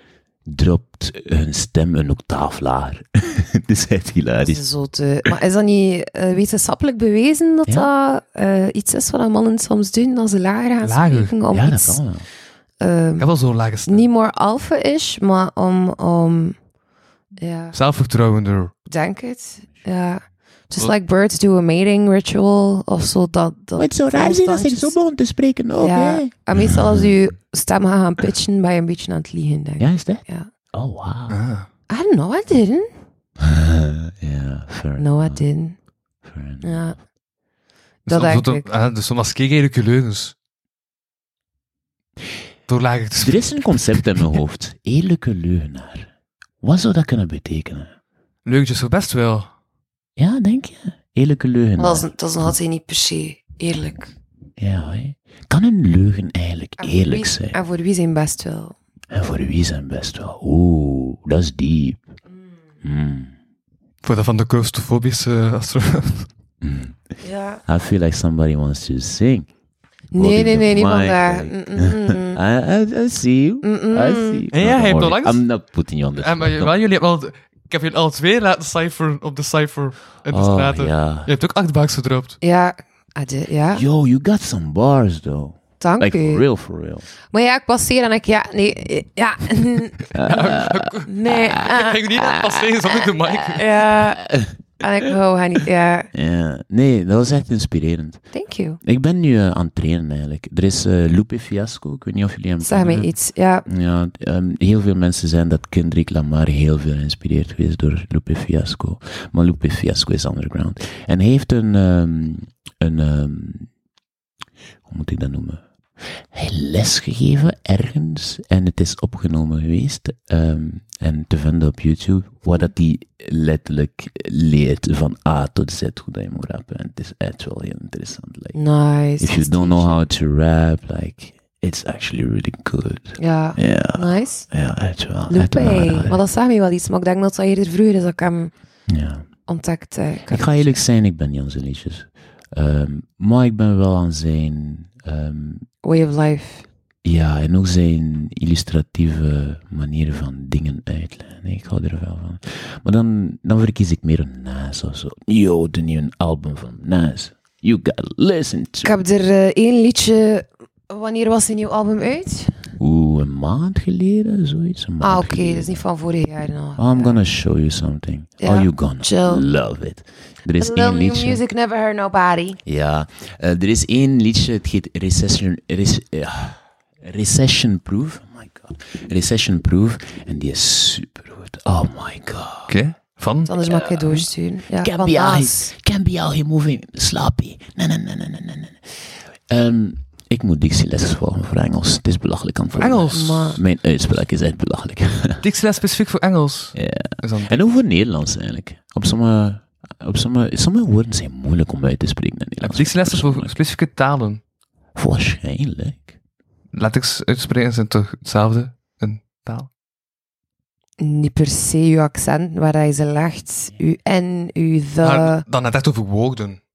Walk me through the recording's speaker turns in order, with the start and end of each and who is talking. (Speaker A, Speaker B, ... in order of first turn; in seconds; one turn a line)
Speaker A: 0.5-4.6
Speaker B: 4.4-12.0
Speaker C: 10.8-11.3
Speaker A: 11.5-12.3
Speaker B: 12.8-13.3
Speaker C: 13.2-14.1
Speaker B: 13.8-16.6
Speaker B: 17.4-17.7
Speaker C: 17.7-18.7
Speaker B: 18.9-25.0
Speaker A: 23.8-27.1
Speaker B: 25.8-30.5
Speaker A: 29.8-31.4
Speaker C: 31.3-31.7
Speaker B: 31.9-32.9
Speaker A: 33.4-35.4
Speaker B: 35.0-35.8
Speaker A: 36.2-36.9
Speaker B: 36.6-37.0
Speaker B: 38.1-38.6
Speaker C: 38.1-40.3
Speaker C: 42.7-44.3
Speaker A: 43.2-47.9
Speaker C: 48.4-49.5
Speaker A: 50.2-52.1
Speaker B: 51.8-54.1
Speaker A: 54.6-57.6
Speaker B: 56.8-58.8
Speaker A: 59.1-62.0
Speaker A: 62.8-63.3
Speaker C: 64.0-66.3
Speaker A: 66.6-67.0
Speaker B: 67.2-67.6
Speaker A: 67.6-69.5
Speaker B: 70.1-72.4
Speaker A: 70.1-76.7
Speaker B: 73.6-74.4
Speaker C: 74.5-75.4
Speaker C: 76.1-82.4
Speaker A: 80.3-81.3
Speaker B: 82.4-83.8
Speaker A: 83.7-87.1
Speaker B: 85.8-86.4
Speaker B: 87.3-90.1
Speaker A: 90.1-91.6
Speaker C: 90.2-93.7
Speaker B: 91.0-92.1
Speaker A: 92.2-92.7
Speaker B: 93.4-96.1
Speaker A: 94.0-94.5
Speaker A: 96.1-98.2
Speaker B: 98.3-98.8
Speaker A: 98.8-103.1
Speaker B: 102.6-103.7
Speaker A: 103.7-113.7
Speaker A: 114.8-128.6
Speaker B: 128.5-130.0
Speaker A: 129.2-136.2
Speaker B: 133.2-134.5
Speaker B: 135.3-138.5
Speaker A: 138.9-139.2
Speaker B: 139.5-140.7
Speaker A: 140.3-145.7
Speaker B: 145.8-146.7
Speaker A: 147.0-158.9
Speaker B: 158.8-162.7
Speaker A: 162.8-165.8
Speaker B: 165.0-167.2
Speaker A: 166.8-171.4
Speaker B: 168.4-169.4
Speaker B: 170.6-172.6
Speaker A: 172.7-182.7
Speaker C: 182.7-183.5
Speaker B: 183.5-185.7
Speaker A: 183.7-195.4
Speaker C: 192.8-193.6
Speaker B: 193.1-193.6
Speaker C: 195.4-197.6
Speaker A: 196.7-203.5
Speaker C: 202.6-204.4
Speaker A: 204.9-206.1
Speaker C: 206.7-209.7
Speaker B: 211.0-215.4
Speaker C: 215.0-216.6